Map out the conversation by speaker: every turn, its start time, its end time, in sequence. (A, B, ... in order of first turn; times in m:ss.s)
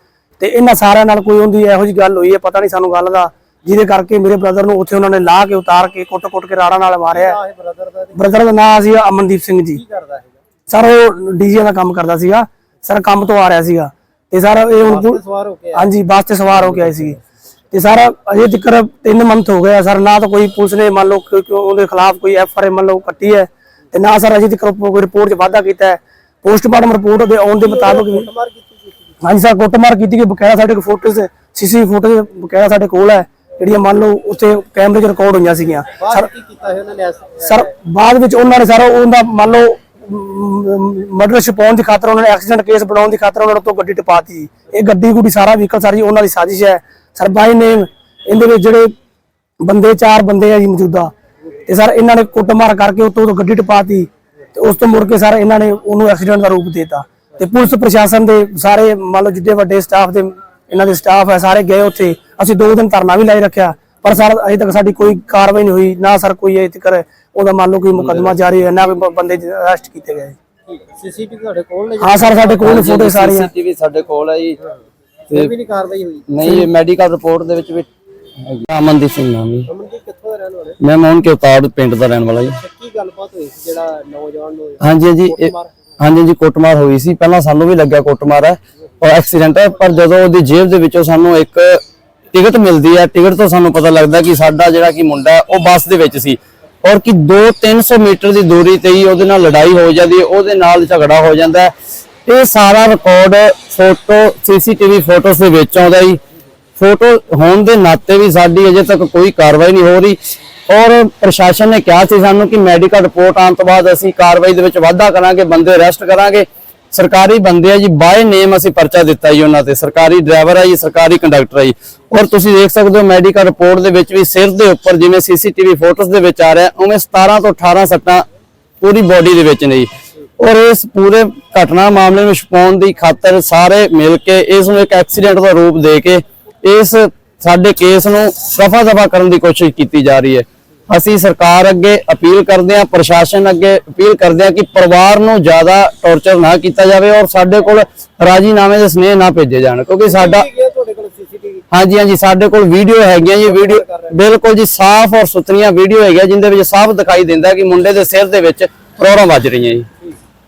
0:00.4-0:07.4 A
0:07.1-0:08.4 B
0:08.1-0:09.8 A
0:09.7-0:10.4 B
0:10.7-0:15.2 A
0:14.8-0:15.9 B
0:15.7-0:17.2 A
0:16.6-0:17.2 B
0:17.7-0:28.3 A
0:27.6-0:29.2 B
0:29.2-0:36.3 A
0:36.0-0:37.7 B
0:37.4-0:48.9 A
0:49.6-0:51.1 A
0:51.7-1:10.4 A
1:07.9-1:08.4 C
1:10.7-1:12.7 B
1:12.0-1:13.5 A
1:12.6-1:14.6 C
1:15.3-1:16.3 B
1:16.3-1:17.9 C
1:18.4-1:19.7 C
1:19.7-1:20.8 B
1:20.8-1:22.6 C
1:22.6-1:25.7 B
1:24.8-1:31.8 C
1:32.3-1:41.7 C
1:42.2-1:46.2 C
1:46.8-2:08.2 C
2:08.8-2:30.5 C
2:30.1-2:31.6 B
2:31.7-2:39.9 C
2:33.4-2:34.2 B